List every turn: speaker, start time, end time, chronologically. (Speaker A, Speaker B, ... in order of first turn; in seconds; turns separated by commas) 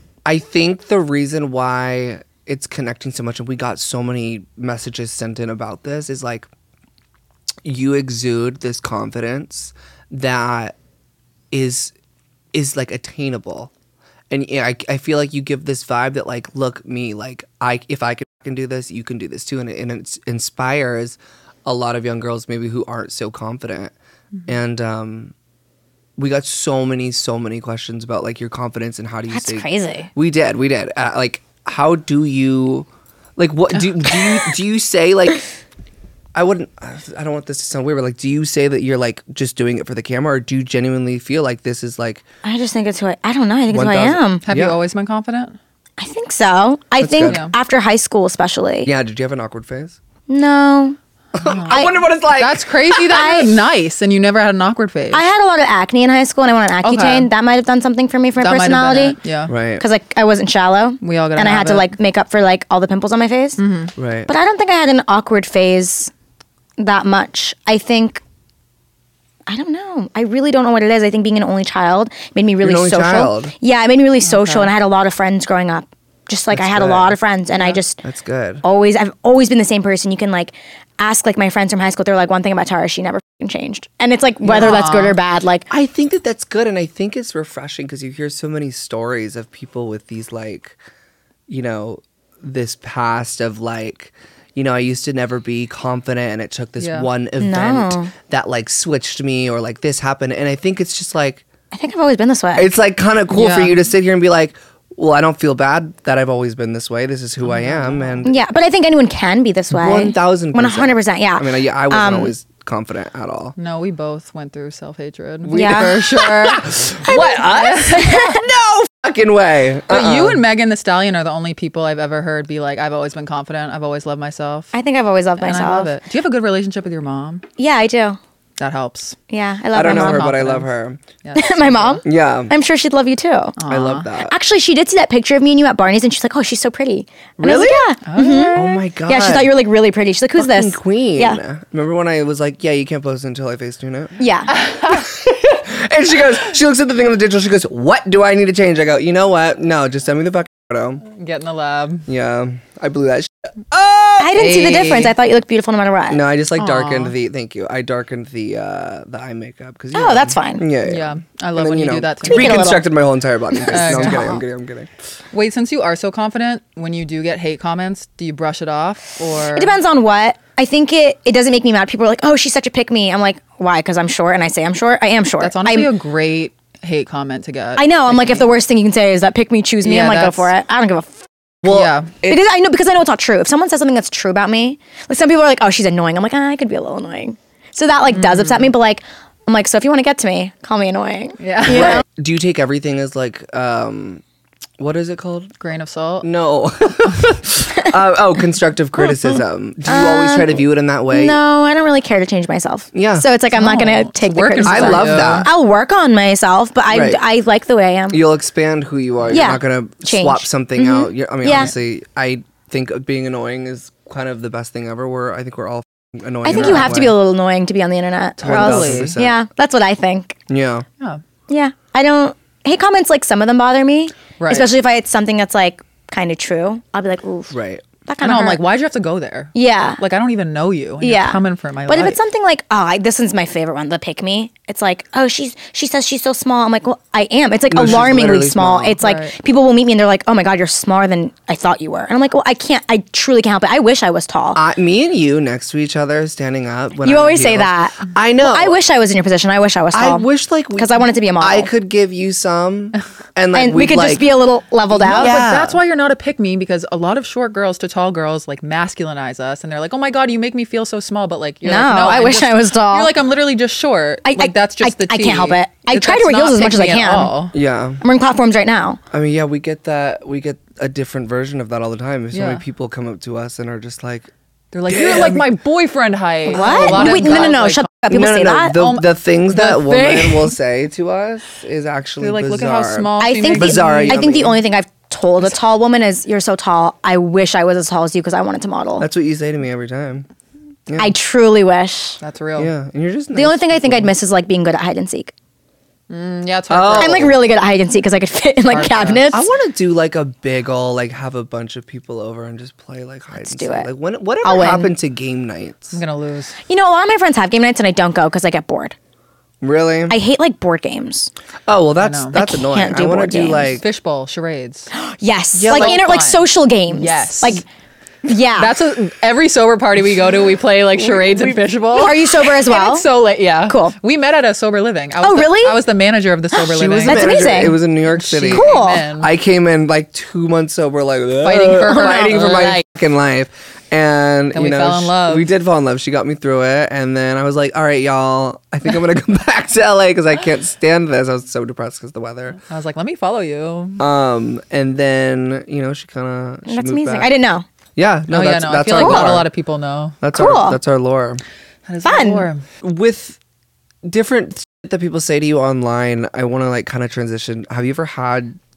Speaker A: 0.2-6.5, Speaker A: 7.6-10.8, Speaker A: 11.5-11.9, Speaker A: 12.5-13.7, Speaker A: 14.3-23.9, Speaker A: 24.4-25.3, Speaker A: 26.2-35.4, Speaker B: 29.3-30.1, Speaker C: 33.7-34.4, Speaker A: 36.3-42.2, Speaker B: 42.4-44.4, Speaker A: 43.7-44.8, Speaker C: 44.5-45.6, Speaker B: 46.0-48.9, Speaker A: 47.0-47.4, Speaker C: 47.2-47.5, Speaker A: 48.8-50.0, Speaker B: 50.3-51.0, Speaker A: 51.3-53.2, Speaker C: 51.4-55.3, Speaker B: 51.7-51.9, Speaker B: 53.1-53.5, Speaker B: 55.1-59.2, Speaker C: 56.8-57.3, Speaker C: 58.4-59.5, Speaker A: 59.5-59.8, Speaker B: 59.8-63.6, Speaker C: 61.0-61.9, Speaker C: 63.6-63.9, Speaker A: 64.0-64.3, Speaker B: 64.3-66.1, Speaker B: 66.8-68.2, Speaker B: 69.5-78.0, Speaker A: 72.6-73.5, Speaker C: 74.2-74.7, Speaker A: 76.5-77.1, Speaker A: 78.0-78.6, Speaker B: 78.6-85.7, Speaker C: 84.4-85.2, Speaker A: 85.7-90.8, Speaker A: 91.5-101.4, Speaker C: 96.8-97.1, Speaker B: 97.4-98.1, Speaker B: 101.7-102.7, Speaker A: 102.5-108.3, Speaker C: 103.3-103.8, Speaker C: 107.4-108.3, Speaker B: 108.2-112.3, Speaker A: 109.7-113.5, Speaker C: 113.5-118.4, Speaker A: 115.4-120.4, Speaker B: 115.5-116.0, Speaker B: 117.1-117.5, Speaker B: 118.0-118.3, Speaker C: 119.9-124.7, Speaker B: 124.7-125.9, Speaker C: 125.4-127.4, Speaker B: 127.6-128.2, Speaker C: 128.6-129.2, Speaker B: 129.3-130.3, Speaker A: 129.7-131.0, Speaker C: 129.8-130.7, Speaker C: 131.2-132.0, Speaker B: 131.3-133.6, Speaker A: 132.0-132.5, Speaker C: 133.6-134.1, Speaker A: 133.7-134.3, Speaker B: 134.2-141.4, Speaker A: 137.4-137.9, Speaker C: 138.1-138.7, Speaker A: 138.5-139.6, Speaker A: 140.4-144.2, Speaker B: 144.2-144.5, Speaker C: 144.5-145.0, Speaker A: 144.8-151.0, Speaker C: 151.1-152.1, Speaker A: 152.1-154.6, Speaker B: 154.2-156.2, Speaker C: 154.3-155.1, Speaker A: 156.1-164.9, Speaker C: 156.6-157.1, Speaker B: 159.9-160.6, Speaker C: 160.8-162.8, Speaker B: 162.2-162.9, Speaker B: 163.5-164.4, Speaker C: 163.7-164.4, Speaker C: 165.3-169.8, Speaker B: 169.5-175.9, Speaker C: 175.4-178.5, Speaker B: 177.8-181.3, Speaker C: 179.8-180.5, Speaker A: 181.6-182.4, Speaker C: 181.7-182.2, Speaker B: 182.2-192.0, Speaker C: 188.1-188.7, Speaker C: 191.4-192.0, Speaker A: 192.1-194.2, Speaker A: 194.8-195.5, Speaker C: 195.6-196.3, Speaker A: 196.2-201.4, Speaker B: 199.8-208.2, Speaker A: 202.9-203.2, Speaker C: 203.5-205.5, Speaker A: 204.6-205.5, Speaker A: 206.9-207.2, Speaker A: 208.1-217.2, Speaker B: 209.3-211.7, Speaker B: 216.4-220.4, Speaker C: 216.5-217.0, Speaker C: 218.4-219.2, Speaker A: 218.4-219.4, Speaker A: 220.5-220.8, Speaker B: 221.5-227.5, Speaker C: 224.4-224.7, Speaker A: 227.5-227.8, Speaker B: 228.1-228.6, Speaker C: 228.2-232.2, Speaker B: 229.5-230.0, Speaker B: 231.0-244.6, Speaker A: 237.7-239.0, Speaker C: 239.0-239.3, Speaker A: 244.5-248.8, Speaker B: 247.0-251.7, Speaker A: 249.9-254.3, Speaker B: 253.5-255.4, Speaker C: 254.9-267.5, Speaker A: 255.1-255.8, Speaker B: 261.6-263.1, Speaker B: 264.2-267.3, Speaker A: 267.5-268.0, Speaker B: 268.0-269.0, Speaker A: 269.1-274.3, Speaker C: 272.3-272.6, Speaker C: 274.7-277.9, Speaker A: 274.9-275.5, Speaker B: 276.5-278.8, Speaker A: 276.5-277.5, Speaker A: 278.1-284.6, Speaker C: 278.7-280.5, Speaker C: 282.2-284.3, Speaker B: 283.2-289.1, Speaker A: 289.0-290.2, Speaker A: 290.9-291.1, Speaker B: 291.0-292.2, Speaker C: 292.2-292.7, Speaker A: 292.6-294.1, Speaker B: 293.3-295.3, Speaker C: 296.1-297.3, Speaker A: 296.7-297.4, Speaker B: 297.0-299.5, Speaker C: 298.7-299.3, Speaker A: 299.3-306.0, Speaker B: 303.4-303.9, Speaker B: 304.4-304.9, Speaker C: 305.9-306.6, Speaker B: 306.7-308.9, Speaker A: 309.6-310.2, Speaker B: 310.1-311.3, Speaker A: 311.7-313.9, Speaker C: 312.0-312.4, Speaker B: 312.3-313.8, Speaker C: 313.8-314.9, Speaker B: 314.9-317.6, Speaker C: 315.5-317.6, Speaker A: 315.6-315.9, Speaker B: 318.2-318.8, Speaker C: 318.6-329.3, Speaker B: 321.9-323.1, Speaker B: 323.7-323.9, Speaker B: 325.2-325.8, Speaker A: 326.6-342.6, Speaker B: 327.1-327.8, Speaker B: 328.5-329.1, Speaker C: 331.4-332.8, Speaker C: 334.5-335.5, Speaker C: 342.6-344.0, Speaker A: 344.0-347.3, Speaker B: 346.7-347.6, Speaker A: 348.0-349.5, Speaker C: 348.3-350.2, Speaker B: 348.9-349.4, Speaker A: 350.2-351.4, Speaker B: 350.3-350.8, Speaker C: 351.9-352.6, Speaker B: 352.0-352.5, Speaker A: 352.8-353.4, Speaker A: 354.0-358.6